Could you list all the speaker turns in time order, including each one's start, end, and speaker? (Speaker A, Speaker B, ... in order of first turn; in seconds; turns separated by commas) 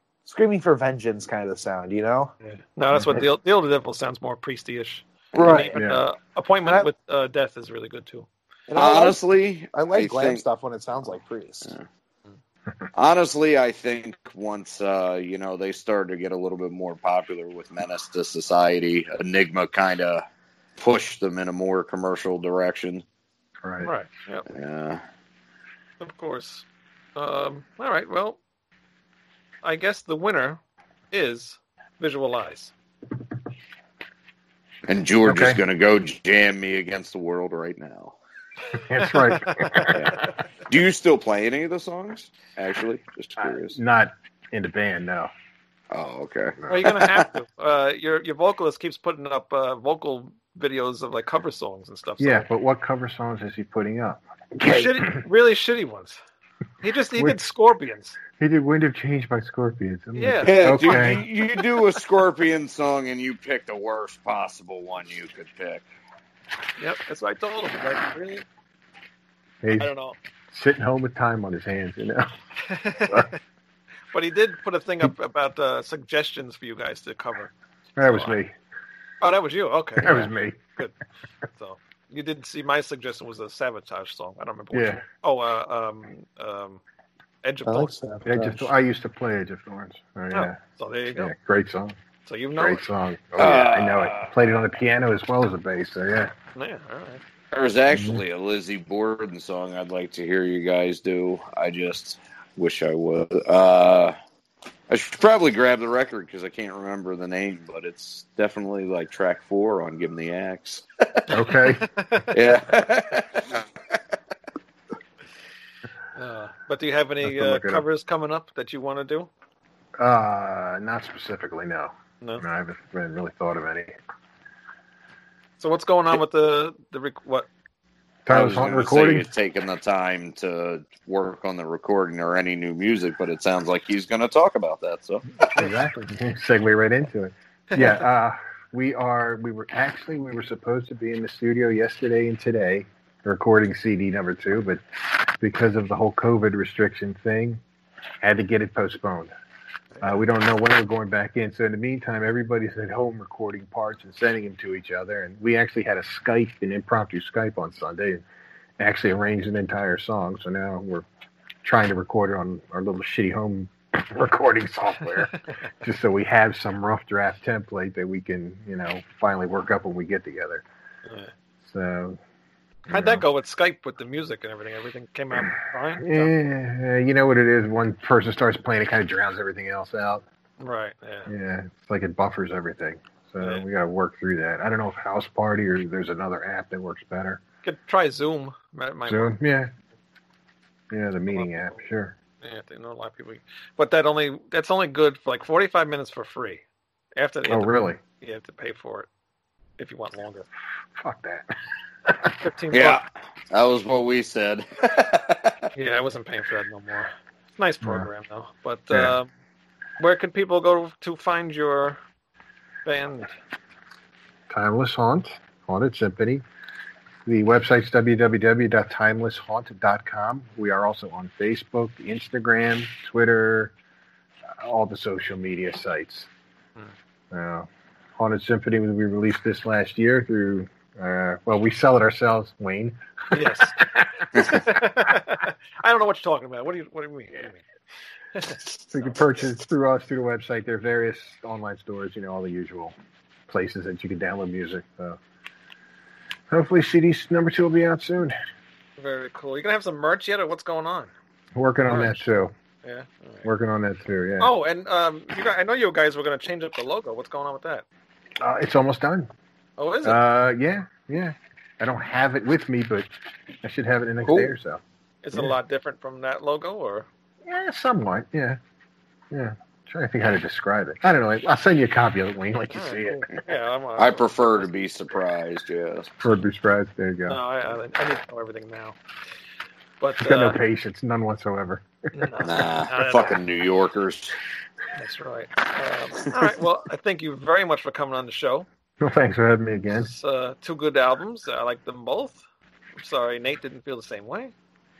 Speaker A: 0.2-2.3, Speaker B: 2.4-8.3, Speaker C: 2.9-3.2, Speaker A: 5.3-5.8, Speaker C: 5.4-6.0, Speaker A: 8.7-9.2, Speaker D: 8.7-10.4, Speaker A: 9.7-11.7, Speaker D: 12.9-20.2, Speaker D: 20.8-23.0, Speaker C: 23.6-23.9, Speaker B: 23.8-24.5, Speaker D: 24.5-25.0, Speaker B: 26.0-26.6, Speaker B: 27.1-28.4, Speaker B: 29.6-30.6, Speaker B: 31.1-32.7, Speaker D: 34.9-38.2, Speaker C: 35.2-35.6, Speaker C: 38.8-40.1, Speaker B: 39.0-40.0, Speaker D: 39.9-43.8, Speaker C: 43.4-45.3, Speaker D: 45.9-47.3, Speaker C: 46.6-47.0, Speaker B: 46.7-52.5, Speaker C: 52.2-55.2, Speaker B: 54.6-56.2, Speaker B: 56.8-58.2, Speaker C: 57.1-57.4, Speaker C: 58.4-61.2, Speaker B: 60.1-61.2, Speaker D: 60.4-65.9, Speaker B: 66.8-68.4, Speaker C: 69.6-69.9, Speaker B: 69.8-70.2, Speaker C: 70.5-72.3, Speaker B: 72.7-73.3, Speaker B: 74.1-78.4, Speaker C: 78.0-78.5, Speaker B: 79.2-80.9, Speaker C: 80.0-80.6, Speaker B: 81.5-86.8, Speaker C: 84.7-85.0, Speaker B: 87.4-87.9, Speaker A: 87.7-88.7, Speaker C: 88.2-90.6, Speaker B: 90.3-91.3, Speaker C: 91.1-92.0, Speaker B: 92.2-92.8, Speaker C: 92.5-96.3, Speaker D: 93.4-94.3, Speaker B: 96.5-97.2, Speaker D: 97.5-104.2, Speaker C: 97.9-98.2, Speaker D: 104.9-111.3, Speaker C: 111.3-111.9, Speaker B: 111.7-112.4, Speaker D: 112.3-113.6, Speaker B: 116.2-119.3, Speaker C: 117.2-117.8, Speaker C: 120.0-123.9, Speaker B: 125.6-127.5, Speaker C: 128.2-129.3, Speaker D: 128.3-135.3, Speaker C: 135.5-144.8, Speaker C: 145.4-147.6, Speaker C: 148.2-149.3, Speaker C: 150.0-158.2, Speaker C: 158.8-161.1, Speaker C: 161.6-170.6, Speaker B: 171.1-171.3, Speaker C: 171.6-172.2, Speaker B: 172.9-176.3, Speaker C: 172.9-173.2, Speaker C: 176.0-180.2, Speaker B: 180.6-181.3, Speaker C: 181.3-187.4, Speaker B: 187.6-189.4, Speaker C: 189.1-189.7, Speaker C: 190.9-192.1, Speaker B: 191.3-191.8, Speaker B: 192.4-196.6, Speaker B: 197.2-199.1, Speaker C: 197.4-198.0, Speaker B: 199.8-200.5, Speaker C: 200.9-201.5, Speaker C: 202.1-202.3, Speaker B: 202.4-203.0, Speaker D: 202.7-205.6, Speaker B: 205.7-209.3, Speaker C: 207.8-208.1, Speaker B: 210.0-212.0, Speaker B: 212.8-213.3, Speaker C: 214.5-216.4, Speaker C: 217.2-223.7, Speaker C: 224.6-226.3, Speaker C: 227.3-234.8, Speaker B: 233.3-233.8, Speaker B: 234.4-237.6, Speaker B: 238.3-239.0, Speaker C: 238.9-242.9, Speaker C: 243.5-245.2, Speaker C: 246.5-248.3, Speaker B: 249.0-251.1, Speaker C: 251.5-252.5, Speaker B: 251.9-252.3, Speaker B: 252.8-253.5, Speaker C: 253.4-254.5, Speaker B: 254.4-257.8, Speaker C: 258.4-259.3, Speaker B: 259.8-260.2, Speaker C: 260.0-263.1, Speaker C: 263.6-264.8, Speaker D: 264.2-264.5, Speaker B: 265.2-267.1, Speaker C: 267.4-268.6, Speaker C: 269.3-273.3, Speaker B: 272.7-274.7, Speaker D: 274.0-276.1, Speaker C: 276.2-277.4, Speaker B: 277.3-279.0, Speaker B: 280.0-280.6, Speaker C: 280.2-282.4, Speaker B: 282.1-283.4, Speaker D: 282.4-284.4, Speaker B: 284.9-288.7, Speaker C: 289.0-290.1, Speaker B: 289.9-292.4, Speaker B: 292.9-294.5